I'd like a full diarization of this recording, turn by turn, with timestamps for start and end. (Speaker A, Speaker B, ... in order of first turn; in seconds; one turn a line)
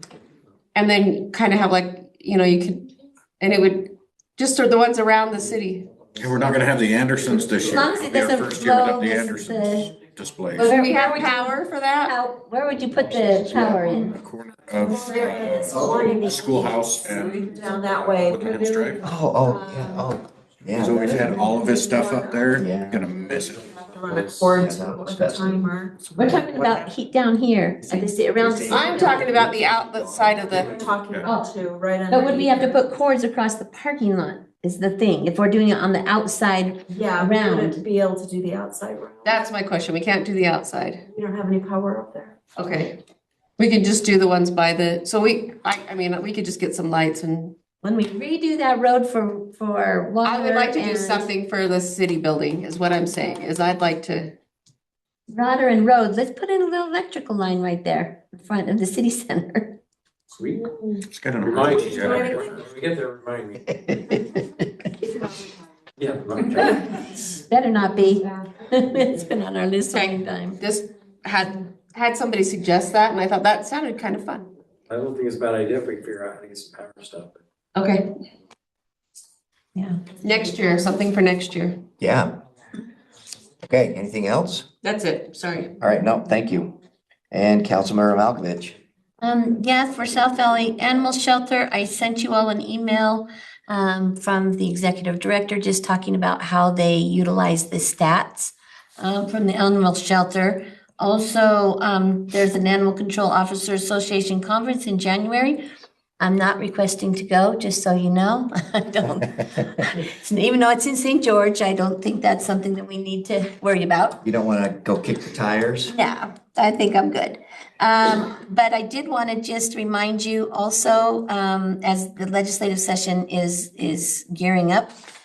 Speaker A: 0.8-5.9
Speaker B: 6.2-11.2
Speaker C: 7.7-9.9
Speaker A: 10.6-12.1
Speaker C: 10.6-11.5
Speaker C: 12.0-14.2
Speaker B: 13.0-17.6
Speaker D: 14.8-20.1
Speaker C: 15.2-16.3
Speaker E: 15.7-16.0
Speaker B: 18.2-19.0
Speaker E: 19.0-21.4
Speaker B: 20.7-23.8
Speaker D: 21.1-22.7
Speaker E: 22.5-23.0
Speaker D: 23.5-26.1
Speaker F: 24.1-24.4
Speaker E: 24.5-26.9
Speaker C: 26.1-29.3
Speaker E: 27.9-30.5
Speaker A: 28.7-30.7
Speaker B: 30.5-31.3
Speaker D: 30.5-32.8
Speaker C: 32.1-37.8
Speaker D: 36.9-39.4
Speaker A: 39.2-41.0
Speaker D: 41.1-42.4
Speaker A: 42.6-43.0
Speaker A: 43.6-47.6
Speaker C: 47.8-51.3
Speaker A: 50.2-54.3
Speaker C: 55.3-59.8
Speaker F: 60.3-60.8
Speaker B: 61.1-62.4
Speaker F: 61.4-64.0
Speaker D: 61.6-62.6
Speaker E: 63.9-64.1
Speaker D: 65.1-65.6
Speaker F: 66.0-67.2
Speaker C: 67.5-70.6
Speaker D: 68.0-68.6
Speaker A: 69.9-74.5
Speaker F: 74.9-77.4
Speaker A: 77.8-78.1
Speaker C: 79.8-80.0
Speaker A: 80.2-81.8
Speaker E: 82.0-82.4
Speaker E: 83.6-84.7
Speaker A: 84.8-85.7
Speaker E: 85.8-86.8
Speaker E: 87.3-88.8
Speaker C: 89.2-105.6
Speaker C: 106.2-114.2
Speaker E: 114.2-115.9
Speaker C: 115.9-124.9